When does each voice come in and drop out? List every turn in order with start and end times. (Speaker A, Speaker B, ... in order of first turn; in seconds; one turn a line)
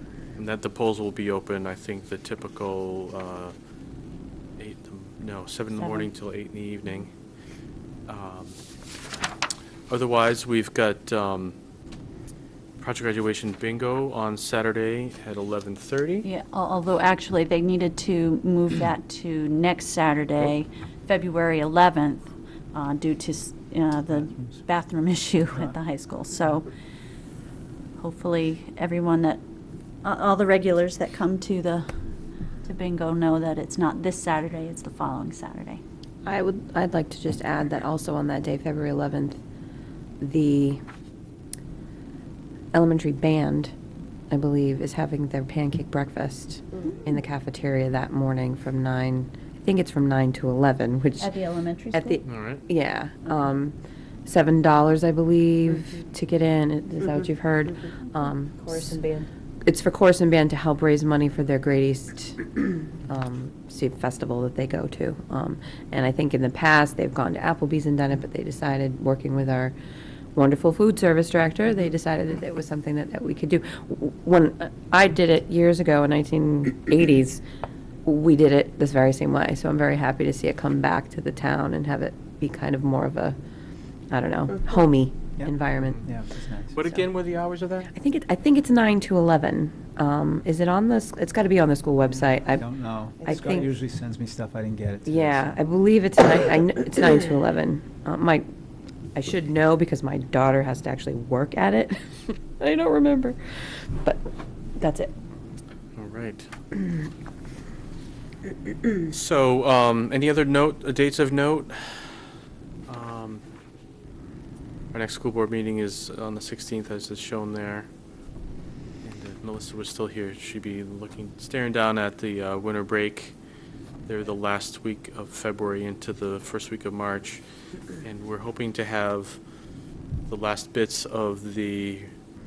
Speaker A: 0.3-3.5
Speaker A: 4.6-7.1
Speaker B: 5.8-6.1
Speaker A: 8.1-8.6
Speaker A: 9.9-11.6
Speaker A: 12.8-16.3
Speaker B: 16.2-26.7
Speaker C: 24.1-24.6
Speaker C: 25.5-25.8
Speaker B: 28.0-29.4
Speaker B: 30.0-31.9
Speaker B: 32.6-35.8
Speaker D: 36.2-39.4
Speaker D: 40.2-40.8
Speaker D: 42.7-43.7
Speaker D: 44.3-51.3
Speaker B: 51.2-52.2
Speaker D: 51.9-69.7
Speaker A: 52.2-52.6
Speaker D: 70.3-77.4
Speaker D: 78.0-83.4
Speaker D: 84.1-86.0
Speaker C: 85.4-87.0
Speaker A: 86.7-87.9
Speaker D: 87.9-92.6
Speaker C: 92.3-95.6
Speaker D: 93.2-93.7
Speaker D: 95.0-98.4
Speaker D: 99.2-103.4
Speaker D: 104.8-105.1
Speaker A: 106.0-106.5
Speaker A: 109.1-112.2
Speaker A: 112.9-113.4
Speaker A: 114.9-117.9
Speaker A: 119.0-123.3
Speaker A: 124.1-127.4
Speaker A: 128.0-129.4
Speaker A: 130.3-132.1